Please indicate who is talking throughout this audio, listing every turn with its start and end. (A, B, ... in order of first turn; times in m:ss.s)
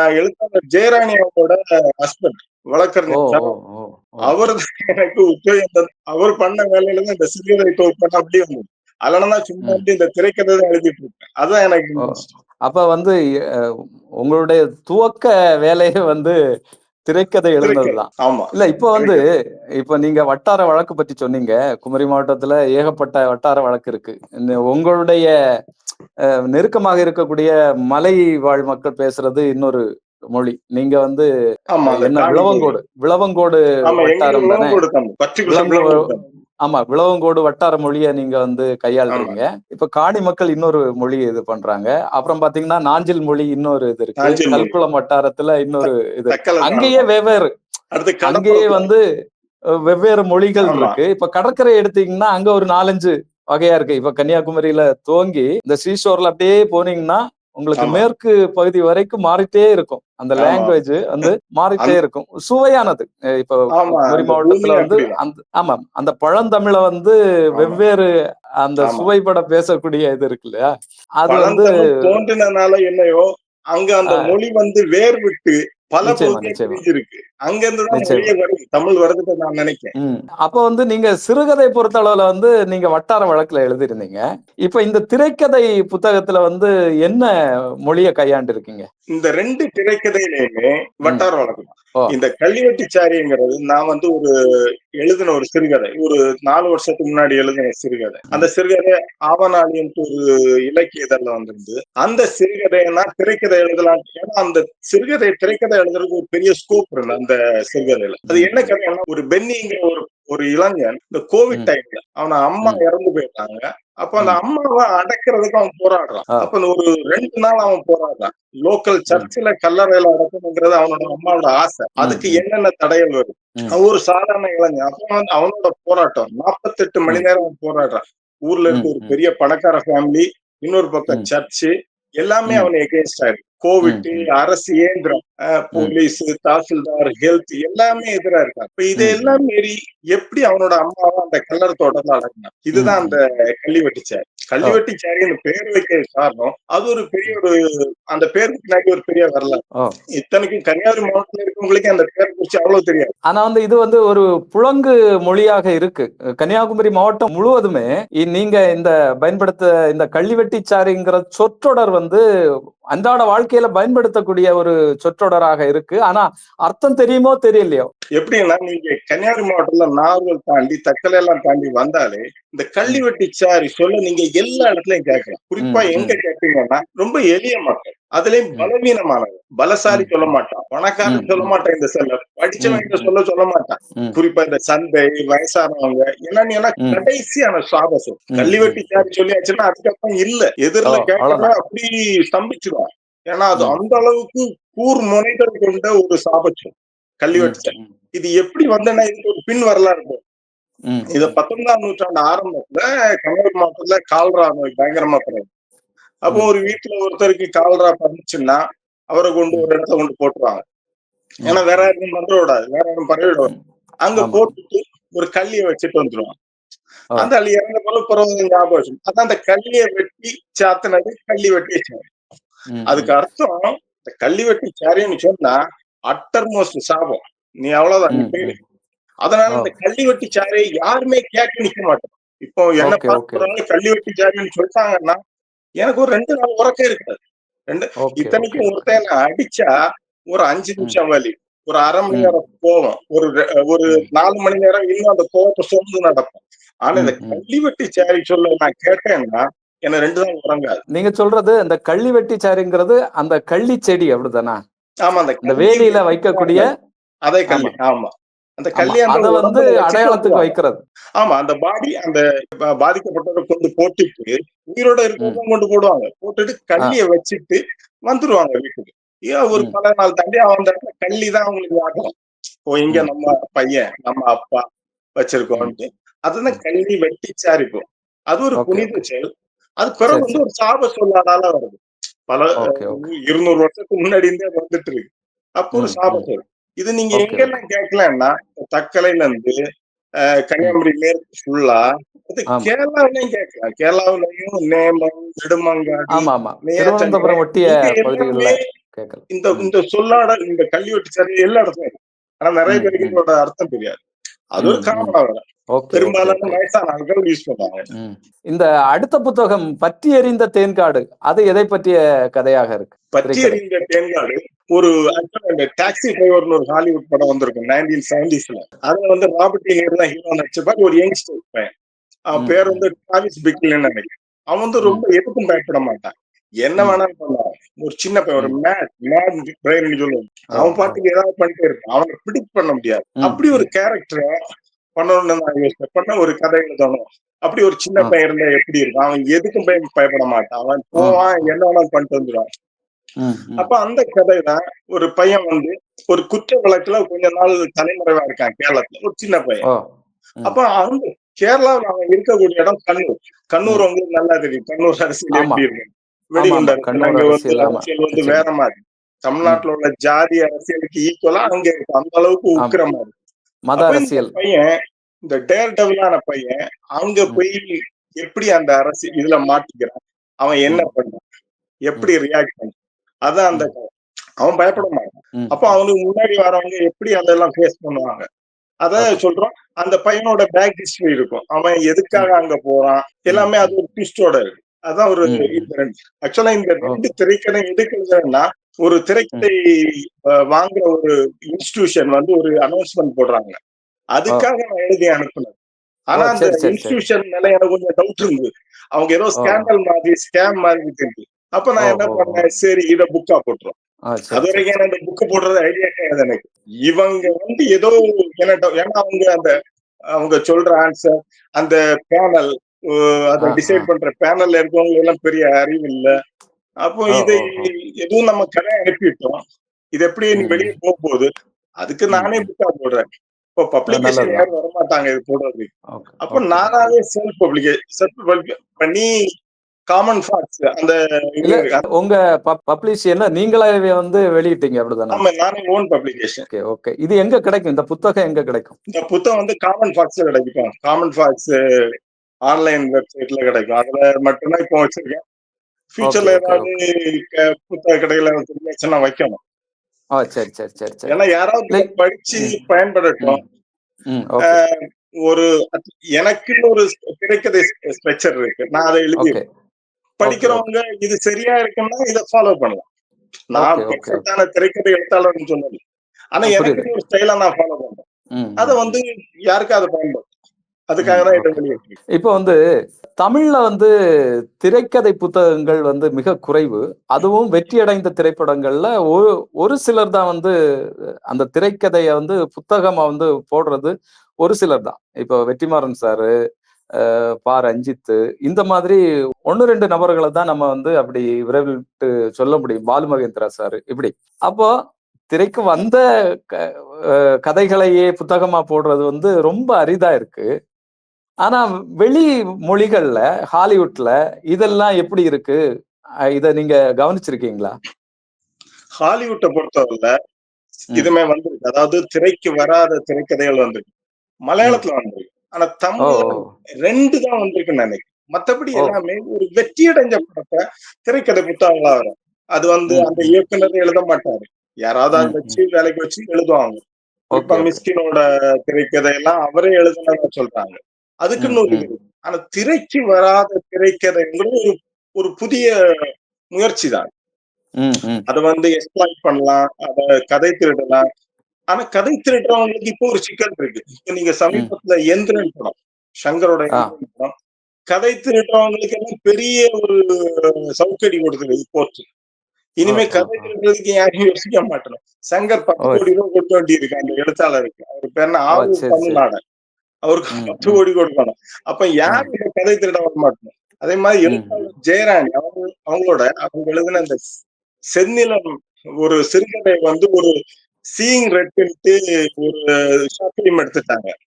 0:00.2-0:03.5 A
0:03.1-0:04.4 B
0:04.2-0:12.3 A
0:12.0-0:13.1 B
0:14.2-0:16.3 B
0:17.1-0:19.2 B
0:17.6-0:19.2 A
0:19.8-0:25.3 B
0:26.5-0:29.8 B
0:30.3-0:31.2 B
0:31.7-0:32.7 A
0:31.8-0:34.8 B
0:33.8-0:36.2 A
0:35.5-0:36.0 B
0:36.6-0:47.5 B
0:39.1-0:39.4 A
0:44.2-0:44.8 A
0:45.8-0:47.1 A
0:47.9-0:48.9 A
0:48.2-0:49.0 B
0:49.8-1:08.1 B
0:50.6-0:51.0 A
0:57.8-0:58.0 A
1:00.4-1:02.0 A
1:03.8-1:05.2 A
1:07.6-1:07.8 A
1:08.6-1:11.8 B
1:08.8-1:09.1 A
1:11.3-1:19.9 A
1:14.1-1:14.4 B
1:16.0-1:16.8 B
1:17.9-1:18.3 B
1:20.0-1:27.3 B
1:27.9-1:28.9 B
1:29.1-1:34.3 A
1:35.0-2:27.6 A
2:02.0-2:02.4 B
2:08.7-2:09.1 B
2:13.8-2:14.2 B
2:19.0-2:19.4 B
2:22.7-2:23.2 B
2:28.1-2:29.6 A
2:30.2-2:33.1 A
2:33.3-2:42.2 B
2:42.9-2:47.9 B
2:48.2-3:20.2 A
2:55.6-2:56.2 B
2:59.9-3:00.3 B
3:01.1-3:01.5 B
3:02.6-3:03.1 B
3:08.4-3:09.0 B
3:10.8-3:11.5 B
3:17.3-3:17.9 B
3:20.9-3:21.3 B
3:21.1-3:25.5 A
3:26.2-3:28.6 A
3:29.1-3:30.6 A
3:31.4-3:31.8 B
3:31.4-3:33.5 A
3:34.0-3:36.3 A
3:34.2-3:34.5 B
3:37.2-3:42.1 A
3:42.7-3:43.1 B
3:42.9-3:45.6 A
3:46.1-3:48.5 A
3:48.1-3:48.6 B
3:49.2-3:55.2 A
3:52.8-3:53.5 B
3:55.8-3:59.7 A
3:58.0-3:58.8 B
4:00.3-4:10.8 A
4:07.0-4:07.4 B
4:10.9-4:14.6 B
4:15.0-4:16.7 A
4:15.4-4:16.7 B
4:17.2-4:20.5 A
4:17.5-4:17.7 B
4:18.8-4:20.8 B
4:21.2-4:22.2 A
4:22.8-4:32.1 A
4:32.7-4:34.6 A
4:35.2-4:39.2 A
4:38.6-4:39.0 B
4:39.8-4:49.5 A
4:40.1-4:40.4 B
4:42.6-4:43.0 B
4:45.7-4:46.3 B
4:47.1-4:47.5 B
4:50.5-4:58.6 A
4:56.1-4:59.7 B
4:59.3-5:04.0 A
5:02.7-5:03.2 B
5:04.5-5:05.4 A
5:04.6-5:05.2 B
5:05.7-5:06.6 B
5:05.9-5:07.8 A
5:08.0-5:13.6 B
5:13.1-5:21.7 A
5:22.3-5:34.3 A
5:22.3-5:22.8 B
5:30.6-5:31.0 B
5:33.2-5:33.7 B
5:35.0-5:42.5 A
5:43.2-5:43.7 B
5:43.6-5:49.6 A
5:50.4-6:03.1 A
5:55.3-5:55.6 B
5:56.4-5:58.4 B
6:03.7-6:04.3 B
6:03.8-6:04.7 A
6:05.2-6:11.2 A
6:11.9-6:12.7 A
6:13.2-6:13.9 A
6:14.4-6:18.2 A
6:15.4-6:15.7 B
6:18.8-6:29.6 A
6:23.3-6:23.7 B
6:25.2-6:25.7 B
6:30.5-6:33.6 A
6:34.2-6:35.6 A
6:36.1-6:43.7 A
6:36.2-6:37.0 B
6:39.4-6:39.7 B
6:41.8-6:42.4 B
6:44.1-6:44.6 B
6:44.3-6:49.5 A
6:50.2-6:56.1 A
6:53.4-6:53.9 B
6:56.8-6:59.4 A
6:57.1-6:57.7 B
7:00.0-7:01.3 A
7:00.3-7:00.7 B
7:01.8-7:03.0 A
7:02.1-7:02.5 B
7:03.6-7:05.7 A
7:03.9-7:04.4 B
7:06.0-7:06.8 B
7:06.3-7:09.1 A
7:09.9-7:11.8 A
7:11.4-7:15.2 B
7:15.1-7:16.5 A
7:16.5-7:18.8 B
7:18.9-7:21.5 A
7:22.5-7:25.2 A
7:25.9-7:29.4 A
7:26.0-7:26.7 B
7:30.2-7:31.1 B
7:31.1-7:33.4 A
7:31.7-7:32.6 B
7:34.1-7:34.6 B
7:34.4-7:39.4 A
7:39.2-7:39.4 B
7:40.2-7:42.8 A
7:40.2-7:40.6 B
7:43.5-7:45.8 A
7:43.6-7:44.2 B
7:46.4-7:48.0 A
7:46.4-7:46.9 B
7:48.4-7:48.8 B
7:48.6-7:50.3 A
7:50.9-7:52.0 A
7:51.0-7:51.6 B
7:52.2-7:52.5 B
7:53.2-7:53.9 B
7:54.6-8:00.5 B
8:01.3-8:06.3 B
8:07.0-8:14.7 B
8:15.3-8:16.0 B
8:16.5-8:20.4 B
8:21.4-8:25.6 B
8:26.3-8:27.7 B
8:29.0-8:30.1 A
8:31.0-8:33.9 A
8:34.5-8:46.8 A
8:36.0-8:36.5 B
8:42.9-8:43.3 B
8:45.2-8:45.6 B
8:47.3-8:47.8 B
8:47.3-8:55.7 A
8:51.4-8:51.9 B
8:56.5-8:57.1 A
8:57.8-8:58.2 B
8:58.3-9:01.0 A
9:01.7-9:07.3 A
9:07.9-9:10.0 A
9:10.8-9:12.0 A
9:12.8-9:19.4 A
9:12.8-9:13.5 B
9:15.8-9:16.0 B
9:18.5-9:19.2 B
9:20.0-9:27.2 A
9:20.4-9:20.8 B
9:22.0-9:22.3 B
9:24.2-9:24.6 B
9:27.9-9:28.5 A
9:29.0-9:30.3 A
9:31.0-9:34.1 A